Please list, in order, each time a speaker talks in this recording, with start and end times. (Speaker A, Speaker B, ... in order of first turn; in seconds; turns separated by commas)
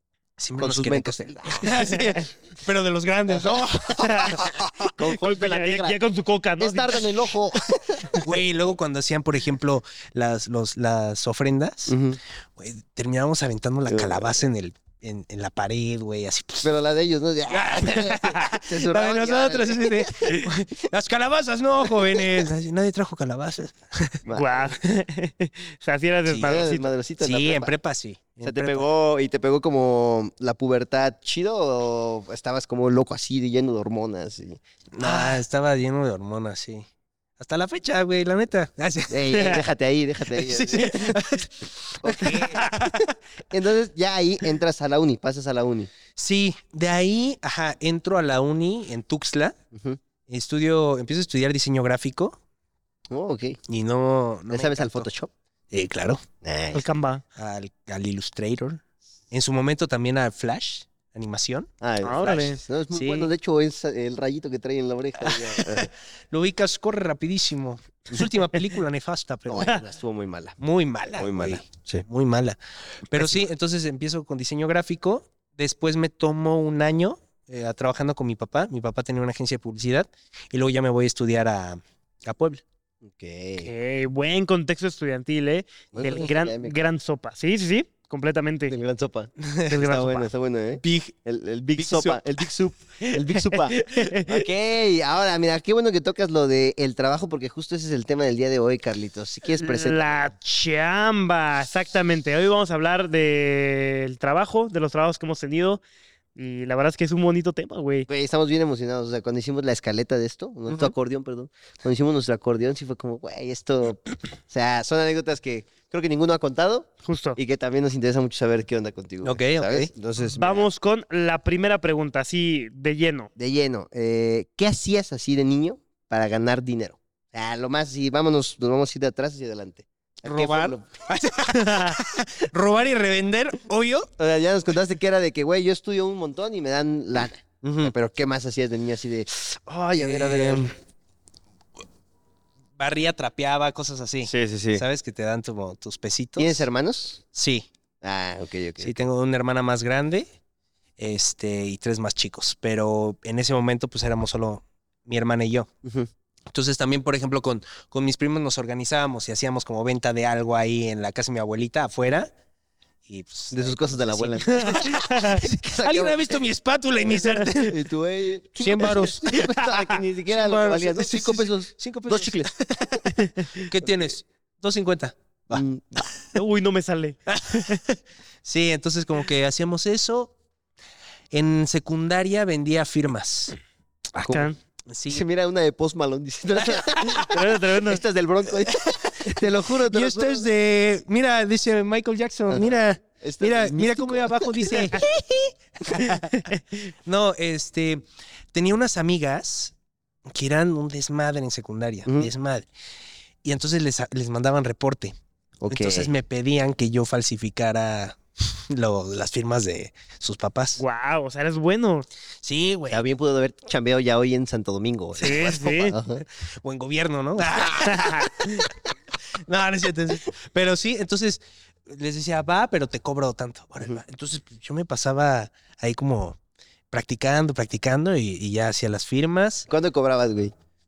Speaker A: 0.4-4.7, Speaker B: 0.6-2.1, Speaker C: 4.0-4.5, Speaker B: 4.4-6.0, Speaker C: 5.0-7.2, Speaker B: 6.6-8.3, Speaker A: 8.1-11.9, Speaker B: 11.9-12.2, Speaker A: 12.6-16.7, Speaker B: 13.9-14.3, Speaker B: 16.6-20.5, Speaker A: 17.5-24.2, Speaker B: 24.2-24.8, Speaker C: 24.3-26.9, Speaker A: 26.3-26.6, Speaker B: 26.4-27.7, Speaker A: 27.2-28.8, Speaker B: 28.4-35.4, Speaker A: 34.9-36.9, Speaker A: 37.4-39.6, Speaker B: 39.1-41.2, Speaker C: 39.3-39.6, Speaker A: 40.3-43.1, Speaker B: 42.0-45.9, Speaker A: 46.1-49.5, Speaker B: 49.7-50.0, Speaker A: 50.3-52.4, Speaker B: 53.1-53.6, Speaker A: 53.7-55.1, Speaker B: 54.5-55.3, Speaker A: 55.7-56.2, Speaker B: 56.4-56.8, Speaker C: 56.7-57.2, Speaker A: 57.4-61.7, Speaker B: 61.8-65.9, Speaker C: 62.0-62.6, Speaker A: 62.9-63.3, Speaker A: 65.2-69.8, Speaker B: 69.5-70.5, Speaker A: 70.6-82.6, Speaker B: 71.2-72.0, Speaker B: 83.0-83.7, Speaker C: 83.6-88.7, Speaker B: 85.9-86.8, Speaker B: 88.7-100.2, Speaker A: 89.4-89.9, Speaker C: 89.7-90.3, Speaker A: 90.8-91.2, Speaker A: 91.8-92.2, Speaker C: 93.0-94.5, Speaker C: 99.5-105.8, Speaker C: 106.3-108.1, Speaker B: 108.1-120.7, Speaker A: 110.7-110.9, Speaker C: 117.0-117.4, Speaker A: 119.2-119.9, Speaker C: 120.3-123.3, Speaker B: 123.4-131.0, Speaker A: 130.2-134.1, Speaker C: 131.5-132.0, Speaker B: 134.2-140.8, Speaker A: 137.6-137.9, Speaker A: 140.0-140.7, Speaker A: 142.8-146.7, Speaker B: 144.2-144.8, Speaker B: 146.4-147.2, Speaker A: 147.3-147.7, Speaker B: 148.0-148.9, Speaker A: 148.8-150.3, Speaker A: 151.0-155.7, Speaker B: 155.8-156.1, Speaker A: 156.5-162.3, Speaker A: 163.1-167.8, Speaker B: 163.5-166.2, Speaker C: 164.7-165.4, Speaker B: 167.5-172.5, Speaker A: 168.6-169.5, Speaker A: 170.3-175.6, Speaker B: 173.8-174.1, Speaker B: 175.5-176.1, Speaker C: 176.3-177.8, Speaker A: 177.3-180.3, Speaker A: 181.3-183.6, Speaker A: 184.2-185.2, Speaker C: 184.2-184.6, Speaker B: 185.1-190.4, Speaker C: 187.0-188.0, Speaker A: 188.7-195.1, Speaker B: 192.5-195.0, Speaker A: 195.8-196.5, Speaker C: 196.0-196.6, Speaker A: 197.1-199.7, Speaker A: 200.2-202.7, Speaker B: 202.1-202.3, Speaker A: 203.4-205.2, Speaker B: 205.6-206.1, Speaker A: 205.7-210.8, Speaker C: 210.8-212.1, Speaker A: 212.4-213.0, Speaker B: 212.9-216.2, Speaker C: 215.2-215.9, Speaker A: 215.3-218.7, Speaker C: 217.8-218.7, Speaker A: 219.4-226.4, Speaker A: 226.9-229.7, Speaker B: 229.7-230.5